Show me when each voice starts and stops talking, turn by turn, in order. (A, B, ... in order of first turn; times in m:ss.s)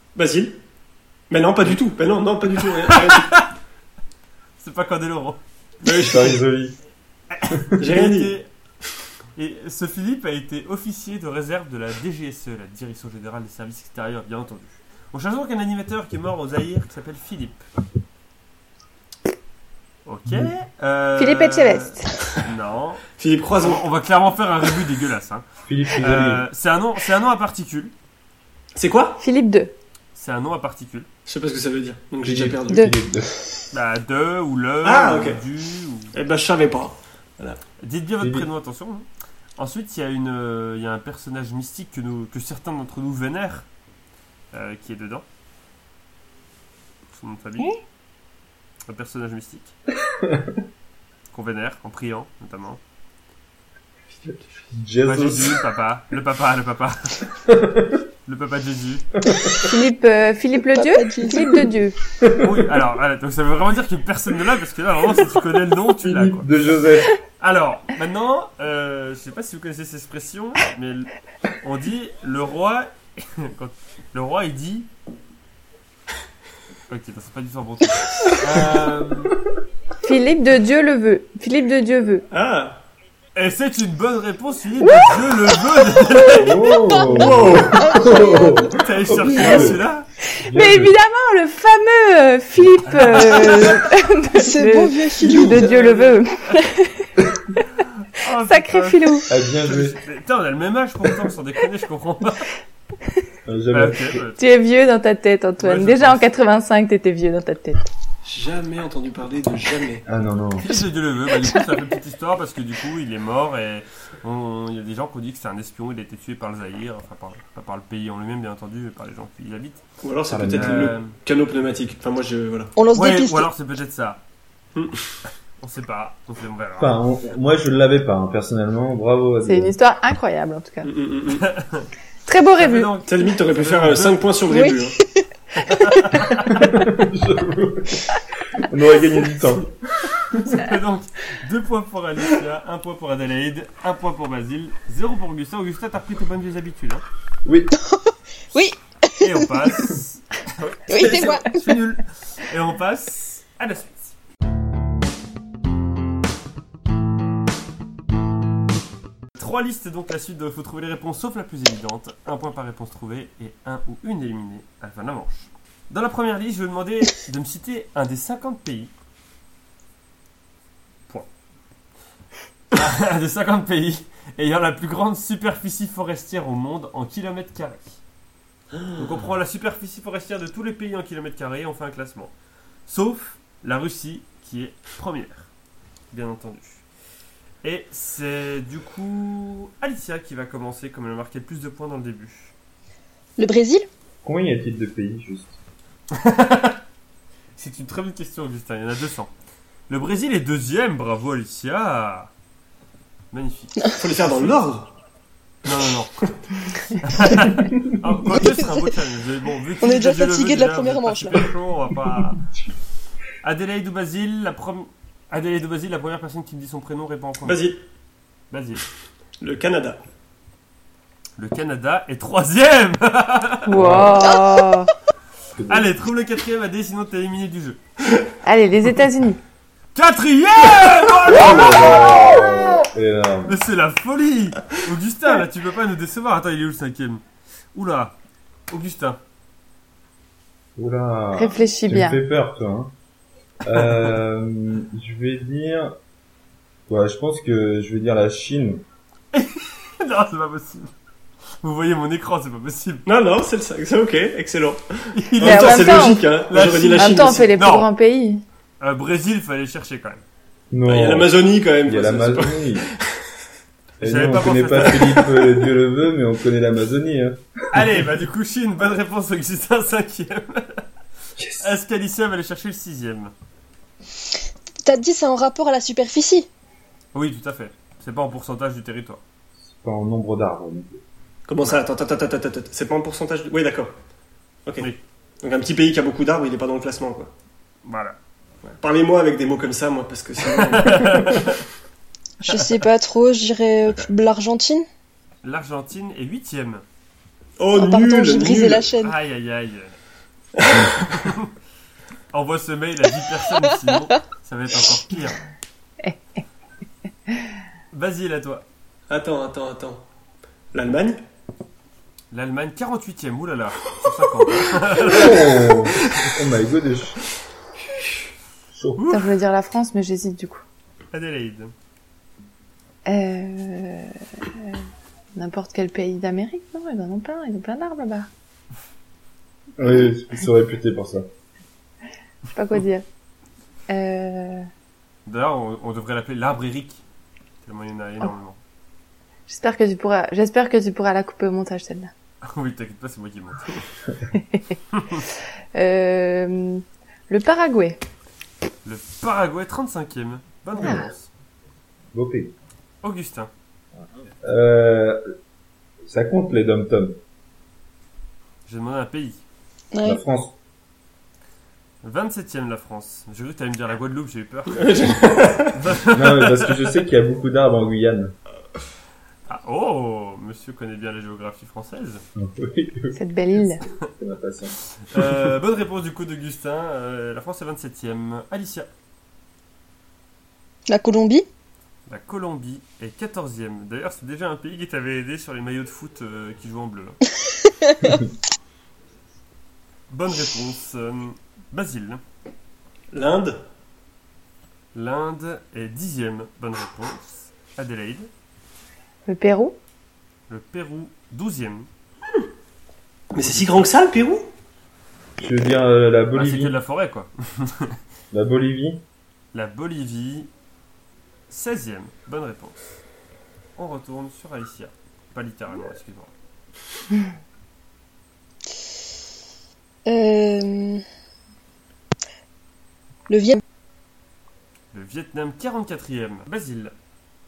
0:00.2-0:00.6 A
0:01.3-0:03.3 A
0:02.8-0:03.5 B
0:04.6-0:05.4 B
0:05.8-0:06.4 A
0:05.9-0:06.8 C
0:07.3-0:08.5 B
0:07.8-0:08.4 A
0:09.4-0:17.6 B
0:20.1-0:23.1 B
0:21.2-0:22.2 D
0:23.1-0:23.8 A
0:23.6-0:25.4 B
0:25.7-0:26.4 C
0:26.0-0:27.9 B
0:28.8-0:29.2 A
0:29.2-0:29.7 D
0:30.2-0:31.1 B
0:31.3-0:32.9 A
0:32.2-0:33.6 C
0:33.7-0:36.1 B
0:34.8-0:35.4 A
0:36.1-0:37.6 A
0:37.8-0:39.1 B
0:38.2-0:38.5 C
0:39.6-0:43.7 B
0:44.5-0:45.2 B
0:47.1-0:47.8 B
0:48.9-0:49.7 B
0:50.1-0:50.5 C
0:51.3-0:52.8 B
0:54.2-0:54.6 A
0:54.7-0:55.6 C
0:55.0-0:57.4 B
0:57.5-0:57.9 C
0:58.3-0:59.1 B
0:59.2-0:59.7 C
0:59.6-1:02.0 D
1:00.7-1:01.7 E
1:02.2-1:02.6 C
1:02.4-1:06.7 B
1:06.0-1:07.2 C
1:07.4-1:14.9 B
1:16.9-1:19.4 B
1:20.0-1:22.3 D
1:22.3-1:22.8 A
1:23.4-1:26.7 B
1:26.3-1:29.9 C
1:27.1-1:27.9 A
1:27.2-1:28.7 E
1:28.7-1:30.1 B
1:29.4-1:29.7 D
1:30.4-1:31.0 C
1:30.5-1:37.1 D
1:32.8-1:33.8 B
1:34.4-1:35.7 E
1:35.2-1:36.6 B
1:38.0-1:42.5 B
1:38.4-1:39.3 D
1:39.3-1:40.0 C
1:43.5-1:44.2 C
1:43.7-1:44.4 B
1:44.4-1:47.8 D
1:45.6-1:46.2 B
1:48.2-1:50.0 A
1:50.1-1:50.7 C
1:50.6-1:59.8 B
2:00.0-2:02.8 A
2:00.3-2:01.0 C
2:00.5-2:01.2 B
2:02.8-2:03.5 E
2:02.9-2:04.2 B
2:04.8-2:05.1 A
2:05.6-2:07.0 B
2:06.8-2:09.8 C
2:09.4-2:10.9 D
2:10.8-2:11.5 A
2:11.3-2:11.9 B
2:12.3-2:13.0 D
2:12.6-2:14.3 B
2:13.0-2:15.0 A
2:14.5-2:15.3 E
2:15.6-2:16.7 B
2:16.4-2:20.6 C
2:20.4-2:27.0 B
2:27.4-2:27.7 C
2:27.8-2:29.7 E
2:29.2-2:34.1 B
2:30.9-2:31.6 E
2:39.4-2:48.9 B
2:52.7-2:58.0 B
2:58.7-2:59.3 A
2:59.0-3:02.3 B
3:02.9-3:05.5 B
3:06.1-3:06.8 B
3:07.6-3:12.5 B
3:13.4-3:13.9 E
3:14.2-3:15.6 C
3:16.2-3:16.8 B
3:17.6-3:19.3 B
3:19.9-3:22.3 B
3:23.3-3:24.5 B
3:24.0-3:24.9 A
3:25.6-3:26.3 B
3:27.0-3:32.5 B
3:28.4-3:28.9 E
3:29.8-3:31.4 E
3:33.4-3:37.6 B
3:37.4-3:37.8 A
3:38.5-3:38.8 B
3:39.4-3:40.0 A
3:41.4-3:44.0 B
3:43.7-3:44.9 D
3:43.8-3:44.3 C
3:45.6-3:45.9 C
3:45.7-3:47.8 B
3:48.4-3:49.4 D
3:50.0-3:52.4 B
3:51.2-3:53.6 C
3:53.5-3:57.2 B
3:57.7-3:58.2 B
3:58.7-3:59.2 B
4:00.8-4:02.9 C
4:01.3-4:02.2 D
4:03.6-4:06.0 C
4:06.9-4:08.8 C
4:09.3-4:10.9 B
4:11.6-4:13.0 B
4:13.1-4:17.5 A
4:15.1-4:17.9 B
4:15.4-4:16.3 D
4:17.0-4:18.4 D
4:18.8-4:20.2 B
4:20.7-4:21.3 C
4:20.9-4:23.2 A
4:21.8-4:22.9 C
4:24.0-4:27.8 C
4:24.0-4:25.4 B
4:27.7-4:30.8 B
4:31.4-4:31.7 C
4:31.6-4:33.3 B
4:34.8-4:36.5 E
4:37.1-4:39.2 B
4:39.6-4:41.0 C
4:41.5-4:43.9 A
4:45.4-4:47.3 A
4:47.8-4:48.2 B
4:48.6-4:51.6 A
4:50.5-4:51.6 B
4:52.4-4:54.9 E
4:55.4-4:56.8 B
4:57.6-4:58.9 A
4:57.7-4:59.2 E
4:59.0-5:00.0 B
5:00.6-5:00.9 A
5:01.0-5:01.5 B
5:02.3-5:05.4 B
5:06.0-5:06.4 D
5:07.9-5:08.6 B
5:09.1-5:10.0 A
5:10.7-5:11.2 A
5:12.3-5:15.8 B
5:15.0-5:17.2 C
5:18.7-5:19.0 C
5:19.0-5:19.3 B
5:19.1-5:20.6 D
5:21.1-5:21.7 B
5:23.1-5:24.8 D
5:25.4-5:28.3 D
5:29.8-5:31.3 C
5:32.5-5:33.0 D
5:33.9-5:34.7 D
5:35.3-5:37.0 B
5:37.6-5:38.6 B
5:39.5-5:42.1 D
5:42.4-5:43.9 B
5:44.3-5:44.8 D
5:44.9-5:45.2 B
5:45.8-5:48.0 D
5:48.8-5:51.3 B
5:50.8-5:51.1 D
5:52.1-5:52.5 C
5:53.0-5:53.5 B
5:54.4-5:55.2 C
5:56.1-5:57.2 C
5:58.7-5:59.4 B
5:59.9-6:00.2 E
6:00.0-6:00.6 C
6:02.0-6:04.9 B
6:04.7-6:05.8 A
6:05.7-6:07.0 B
6:06.1-6:08.4 C
6:09.5-6:12.2 B
6:12.4-6:13.2 C
6:13.1-6:13.8 D
6:14.2-6:14.8 C
6:15.0-6:18.9 B
6:20.9-6:21.5 E
6:22.1-6:27.2 B
6:27.8-6:28.2 E
6:30.1-6:32.2 B
6:33.1-6:33.6 A
6:34.9-6:38.3 B
6:39.3-6:39.8 D
6:40.5-6:41.9 B
6:43.3-6:44.5 A
6:43.4-6:43.7 B
6:45.4-6:46.8 C
6:46.3-6:48.0 B
6:48.3-6:49.0 C
6:49.5-6:50.5 B
6:51.5-6:52.9 B
6:53.8-6:56.3 B
7:00.1-7:01.0 E
7:03.3-7:03.6 E
7:04.9-7:06.9 B